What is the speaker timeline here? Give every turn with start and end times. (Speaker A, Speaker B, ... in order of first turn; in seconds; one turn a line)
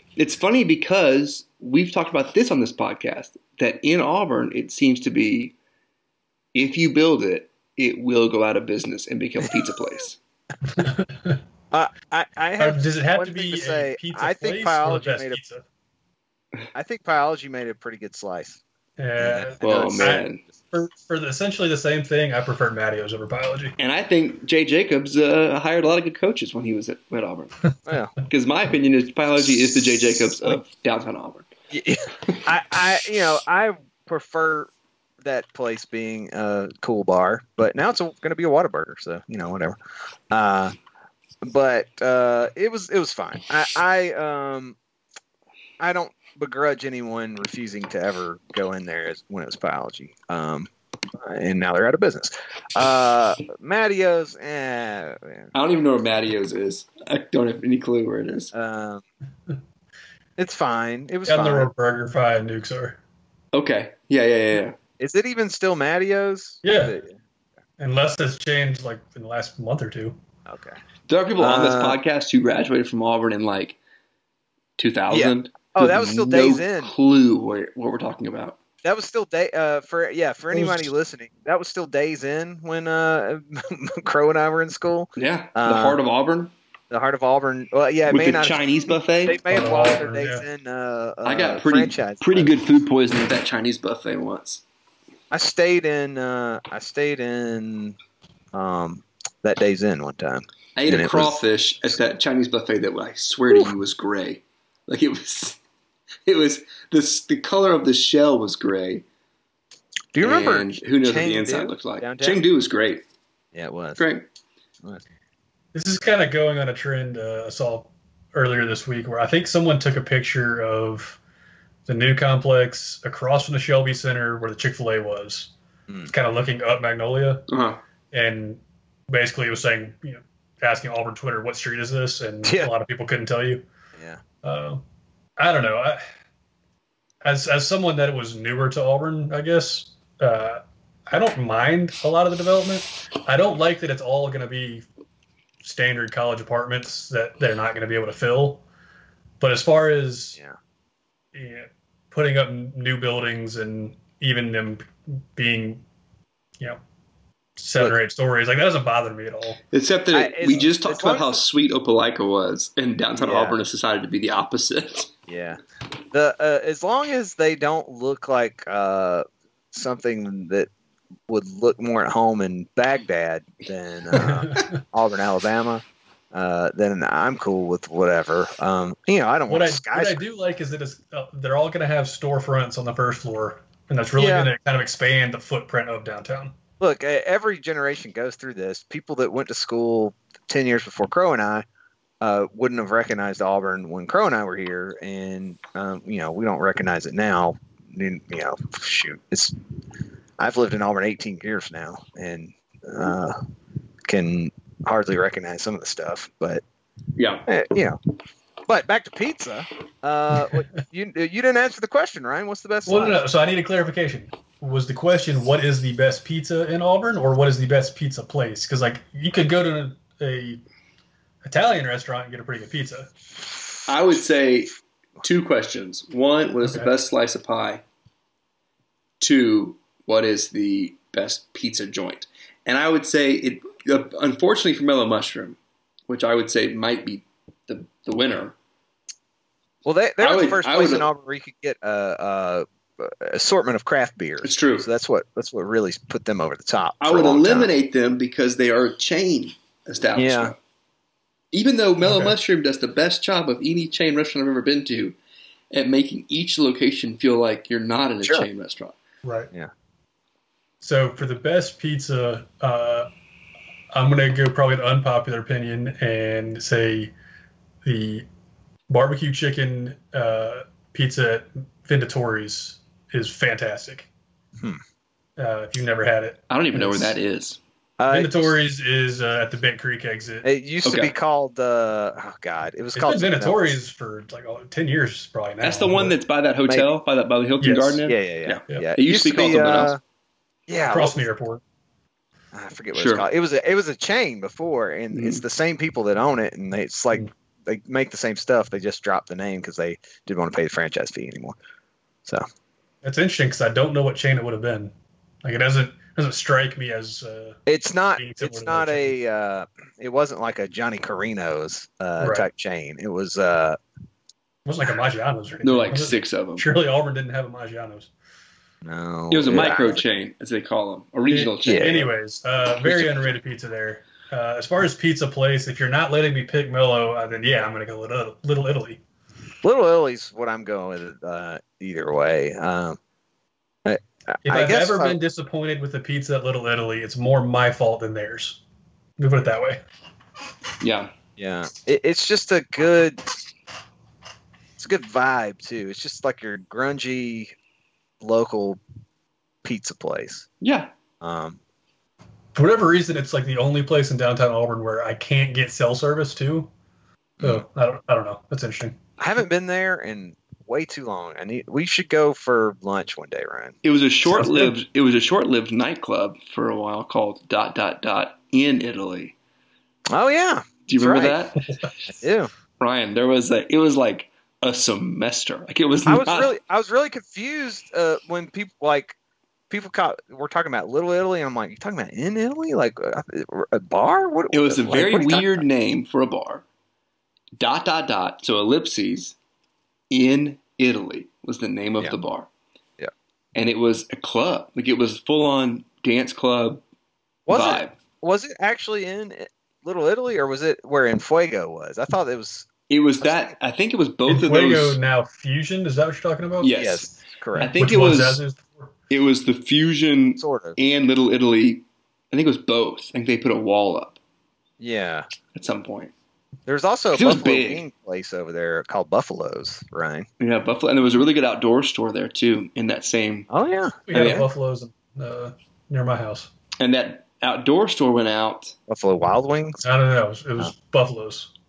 Speaker A: 0.2-5.6
Speaker A: 6.5-10.2
Speaker B: 10.7-11.4
Speaker C: 11.7-15.4
Speaker B: 12.6-15.6
Speaker C: 16.7-18.6
Speaker B: 19.0-23.7
Speaker C: 19.2-20.3
Speaker A: 19.6-20.4
Speaker A: 23.8-27.6
Speaker C: 27.9-28.1
Speaker A: 28.2-31.5
Speaker C: 31.7-34.7
Speaker C: 35.2-39.8
Speaker C: 40.3-40.8
Speaker C: 41.4-44.8
Speaker C: 45.8-55.5
Speaker A: 55.5-58.5
Speaker C: 58.5-59.0
Speaker C: 60.4-61.7
Speaker B: 61.3-63.0
Speaker A: 63.5-64.8
Speaker C: 65.0-67.1
Speaker B: 66.6-67.0
Speaker B: 67.8-70.2
Speaker C: 70.5-70.8
Speaker A: 71.1-73.8
Speaker C: 71.4-72.0
Speaker A: 74.8-78.6
Speaker C: 75.1-76.9
Speaker C: 78.8-86.0
Speaker B: 80.5-80.9
Speaker A: 85.2-86.5
Speaker C: 86.9-92.5
Speaker A: 88.1-89.4
Speaker B: 89.5-90.5
Speaker A: 91.2-94.6
Speaker C: 95.3-98.0
Speaker C: 98.5-102.0
Speaker A: 100.8-105.6
Speaker A: 106.3-109.0
Speaker C: 110.1-112.4
Speaker A: 110.2-113.0
Speaker C: 113.5-114.0
Speaker A: 114.0-114.3
Speaker B: 115.7-121.2
Speaker B: 121.9-125.5
Speaker B: 126.1-127.5
Speaker A: 127.5-127.8
Speaker B: 128.1-133.7
Speaker C: 132.4-132.7
Speaker B: 134.4-134.8
Speaker B: 135.4-136.0
Speaker B: 137.2-144.9
Speaker B: 145.6-148.6
Speaker B: 149.4-150.4
Speaker B: 151.3-155.8
Speaker B: 157.6-159.6
Speaker A: 159.7-165.1
Speaker C: 160.1-161.4
Speaker C: 163.2-163.6
Speaker C: 165.3-165.6
Speaker C: 166.1-170.7
Speaker C: 171.3-180.3
Speaker B: 174.1-174.8
Speaker B: 179.5-186.5
Speaker C: 184.2-184.5
Speaker C: 186.8-191.7
Speaker C: 192.2-199.6
Speaker C: 200.4-203.4
Speaker C: 204.1-206.6
Speaker A: 207.2-207.5
Speaker C: 207.5-208.0
Speaker C: 208.7-213.2
Speaker B: 212.9-220.6
Speaker B: 221.4-223.1
Speaker A: 223.9-227.8
Speaker B: 226.6-226.9
Speaker A: 229.2-235.6
Speaker A: 236.1-238.6
Speaker C: 239.8-247.7
Speaker A: 240.2-241.1
Speaker A: 244.4-244.9
Speaker A: 247.0-250.6
Speaker C: 250.2-250.5
Speaker A: 251.5-255.2
Speaker B: 252.0-252.4
Speaker A: 255.7-258.9
Speaker B: 259.2-259.5
Speaker B: 260.8-263.1
Speaker B: 263.9-267.1
Speaker B: 267.8-268.2
Speaker B: 268.9-274.1
Speaker B: 275.4-277.2
Speaker A: 276.5-277.6
Speaker C: 278.0-278.6
Speaker B: 278.1-280.5
Speaker C: 280.4-283.8
Speaker A: 280.9-281.1
Speaker B: 282.9-286.1
Speaker A: 285.6-289.9
Speaker B: 287.6-288.0
Speaker C: 288.0-290.0
Speaker C: 290.7-291.2
Speaker B: 290.9-291.6
Speaker C: 292.5-301.6
Speaker A: 292.9-293.2
Speaker A: 295.1-295.4
Speaker B: 303.0-307.6
Speaker C: 307.7-313.8
Speaker B: 308.2-309.2
Speaker B: 312.2-312.5
Speaker B: 314.7-318.1
Speaker A: 315.6-316.6
Speaker C: 318.8-320.0
Speaker A: 319.3-322.1
Speaker B: 321.3-329.0
Speaker C: 321.6-322.1
Speaker C: 322.8-323.2
Speaker C: 329.6-333.0
Speaker C: 333.9-335.2
Speaker B: 334.4-338.6
Speaker B: 339.2-339.8
Speaker A: 340.8-341.1
Speaker C: 341.4-343.2
Speaker C: 344.8-347.5
Speaker C: 348.2-348.8
Speaker C: 349.6-350.5
Speaker A: 350.6-350.9
Speaker C: 351.2-351.6
Speaker B: 352.6-356.7
Speaker B: 357.4-359.0
Speaker C: 359.2-363.8
Speaker A: 363.8-369.4
Speaker B: 364.3-364.7
Speaker C: 370.1-371.4
Speaker A: 370.9-371.6
Speaker C: 372.1-372.5
Speaker A: 372.8-376.5
Speaker C: 376.1-379.2
Speaker C: 379.7-385.6
Speaker A: 384.5-386.6
Speaker A: 387.6-389.4
Speaker A: 390.1-392.5
Speaker A: 393.6-396.8
Speaker C: 397.5-402.7
Speaker A: 397.5-397.9
Speaker A: 402.9-405.0
Speaker C: 403.2-403.5
Speaker B: 404.3-406.7
Speaker A: 406.6-408.4
Speaker C: 406.7-407.7
Speaker B: 407.6-408.9
Speaker A: 409.1-414.2
Speaker C: 410.4-410.8
Speaker C: 414.8-415.3
Speaker A: 415.6-416.1
Speaker C: 416.7-420.3
Speaker A: 417.1-417.8
Speaker A: 420.4-423.5
Speaker C: 423.5-424.4
Speaker B: 424.1-426.5
Speaker A: 424.1-424.5
Speaker A: 426.8-428.8
Speaker C: 428.9-429.8
Speaker B: 429.8-431.5